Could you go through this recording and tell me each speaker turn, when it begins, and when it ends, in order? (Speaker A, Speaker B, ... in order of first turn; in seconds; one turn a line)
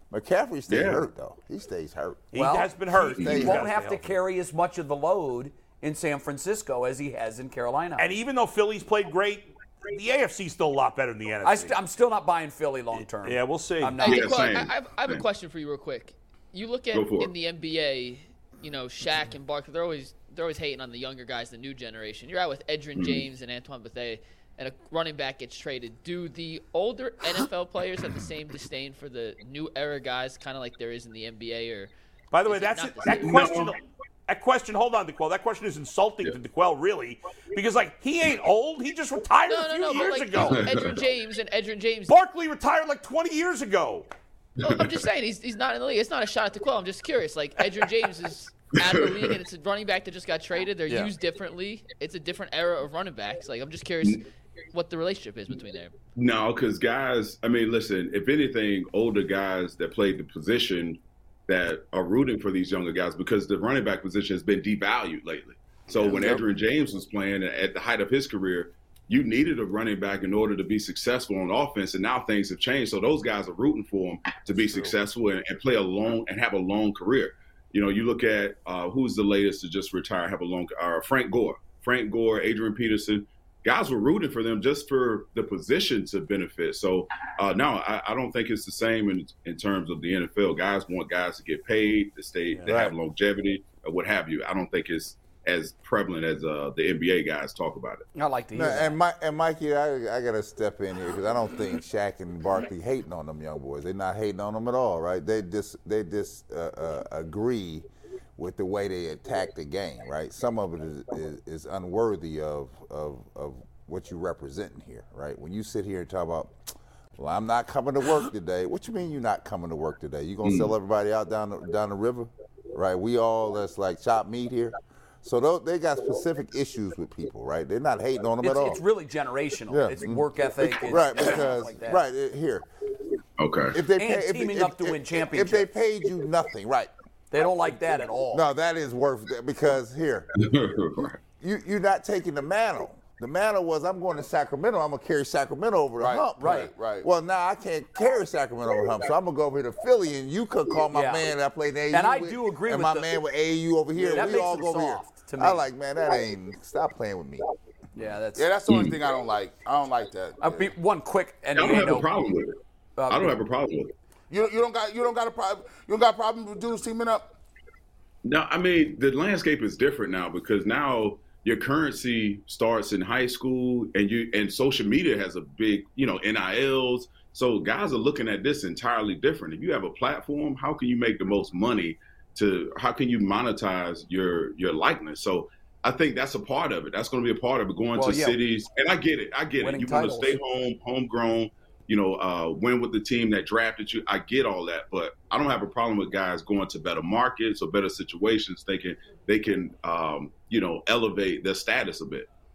Speaker A: 0.1-2.3
Speaker B: 0.7-1.1
Speaker C: 2.3-4.2
Speaker D: 2.3-8.1
Speaker B: 3.0-3.5
Speaker A: 3.2-3.6
Speaker C: 8.0-11.8
Speaker D: 11.4-14.3
Speaker C: 13.2-14.0
Speaker E: 14.0-31.9
Speaker B: 14.0-15.2
Speaker B: 16.9-17.3
Speaker B: 22.9-23.3
Speaker C: 32.3-40.7
Speaker E: 32.5-33.6
Speaker B: 33.2-33.7
Speaker E: 39.5-42.1
Speaker B: 40.5-40.9
Speaker C: 42.1-44.1
Speaker B: 44.6-45.0
Speaker E: 44.6-54.2
Speaker B: 48.8-49.4
Speaker E: 54.7-55.9
Speaker B: 56.1-98.1
Speaker F: 65.9-66.4
Speaker C: 74.5-74.9
Speaker D: 98.1-99.0
Speaker A: 98.5-116.6
Speaker A: 117.2-128.8
Speaker B: 120.4-120.7
Speaker D: 128.4-132.0
Speaker A: 129.7-132.7
Speaker B: 133.4-133.8
Speaker A: 133.7-136.9
Speaker D: 134.0-135.7
Speaker D: 137.3-138.4
Speaker A: 138.3-140.3
Speaker B: 140.3-141.2
Speaker A: 141.4-157.4
Speaker F: 146.0-147.1
Speaker D: 146.4-146.7
Speaker D: 150.9-151.3
Speaker D: 151.9-153.2
Speaker D: 154.0-155.6
Speaker D: 157.9-158.4
Speaker F: 158.3-160.7
Speaker B: 158.7-159.0
Speaker D: 160.4-162.1
Speaker B: 161.5-162.6
Speaker D: 163.0-163.4
Speaker B: 163.1-163.9
Speaker F: 164.3-167.3
Speaker B: 168.2-202.3
Speaker D: 187.9-188.4
Speaker D: 189.6-190.4